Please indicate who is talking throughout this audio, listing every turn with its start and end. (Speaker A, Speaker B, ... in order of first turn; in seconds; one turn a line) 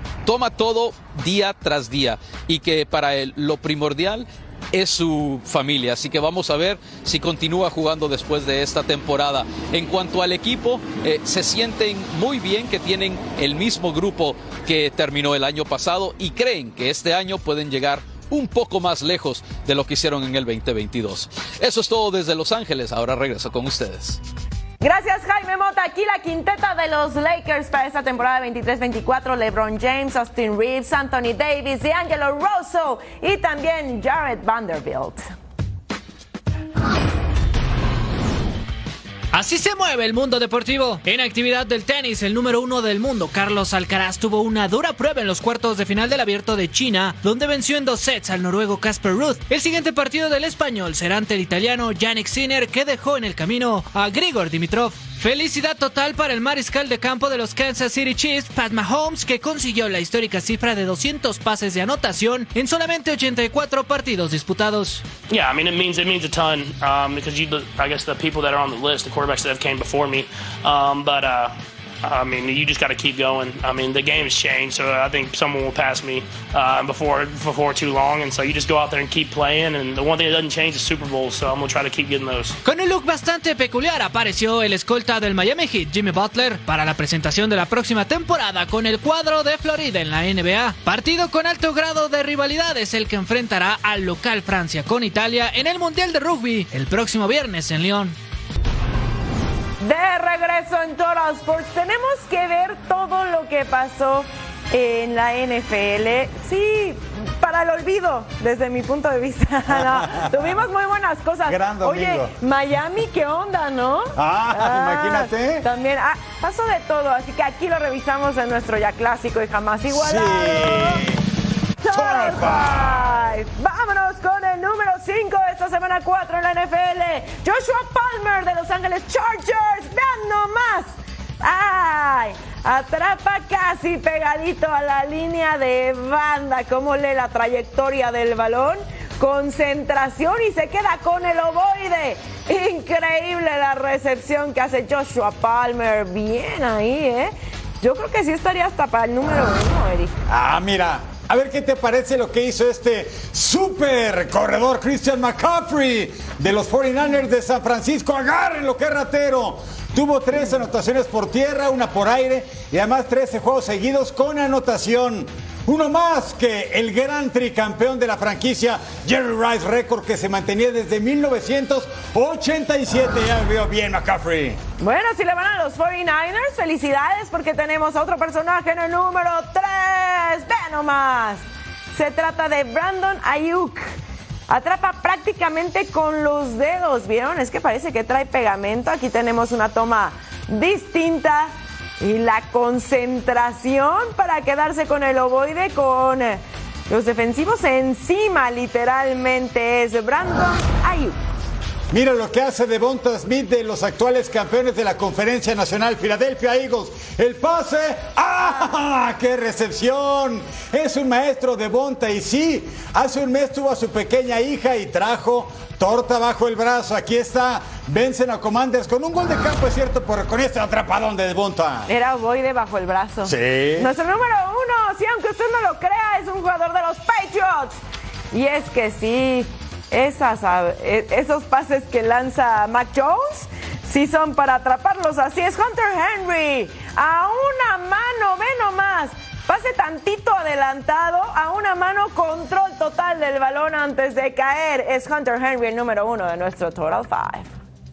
Speaker A: 0.2-24.2
Speaker B: 24.8-35.2
Speaker C: 39.3-65.0
Speaker D: 65.3-82.6
Speaker C: 82.6-98.2
Speaker B: 99.8-121.0
Speaker E: 109.8-110.4
Speaker E: 111.5-112.3
Speaker E: 114.2-115.7
Speaker E: 119.9-121.2
Speaker B: 121.8-150.2
Speaker E: 121.9-123.2
Speaker E: 150.3-174.6
Speaker B: 174.8-183.9
Speaker B: 184.5-201.2
Speaker E: 201.9-221.9
Speaker B: 221.9-227.8
Speaker E: 223.2-223.9
Speaker B: 228.3-247.5